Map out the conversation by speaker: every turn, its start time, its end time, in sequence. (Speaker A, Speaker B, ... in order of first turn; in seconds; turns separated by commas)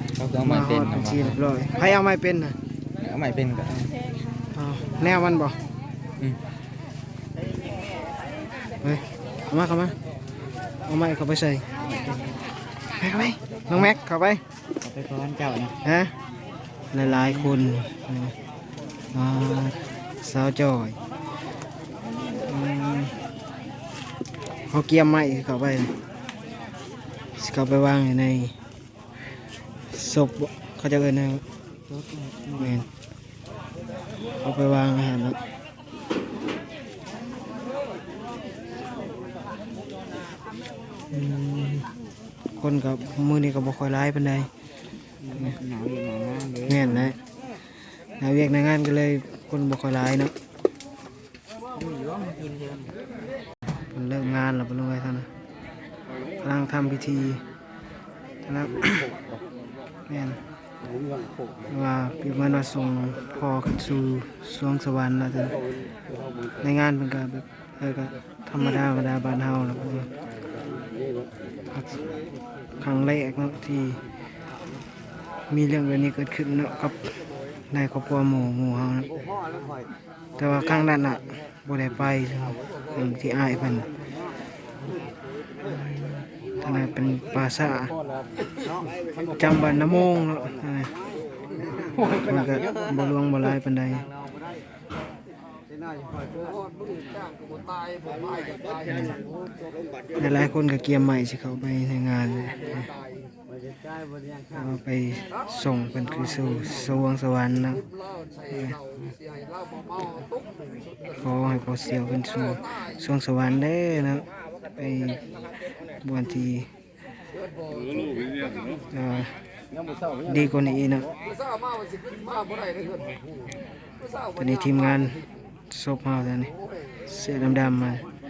Speaker A: 0.1-1.4, Speaker B: 0.4-2.5, Speaker A: 3.0-3.9, Speaker B: 4.5-5.6, Speaker B: 8.8-9.9, Speaker B: 10.9-11.7, Speaker A: 11.9-12.2, Speaker B: 13.0-14.4, Speaker A: 14.8-15.8, Speaker B: 15.8-16.1, Speaker B: 16.9-18.3, Speaker B: 19.1-21.0, Speaker B: 22.3-23.1, Speaker B: 24.7-25.9, Speaker B: 27.4-28.5, Speaker B: 29.9-31.4, Speaker A: 31.9-32.5, Speaker B: 32.6-32.9, Speaker B: 34.4-35.4, Speaker B: 41.1-41.9, Speaker B: 42.6-44.5, Speaker A: 45.5-46.8, Speaker B: 46.6-47.2, Speaker B: 48.2-50.3, Speaker A: 51.8-52.9, Speaker B: 53.9-55.3, Speaker B: 56.4-57.4, Speaker B: 58.5-59.1, Speaker B: 60.1-60.4, Speaker B: 61.7-65.5, Speaker B: 66.6-70.1, Speaker B: 72.8-74.0, Speaker B: 75.5-77.1, Speaker B: 77.7-79.1, Speaker B: 80.4-83.9, Speaker B: 85.7-87.9, Speaker B: 89.3-90.9, Speaker B: 92.1-94.1, Speaker B: 98.8-99.2, Speaker B: 100.2-102.9, Speaker B: 104.5-107.8, Speaker B: 108.5-108.8, Speaker B: 111.2-115.2, Speaker B: 116.0-116.7, Speaker B: 118.9-119.3, Speaker B: 120.2-121.1, Speaker B: 124.4-126.5, Speaker B: 127.0-128.0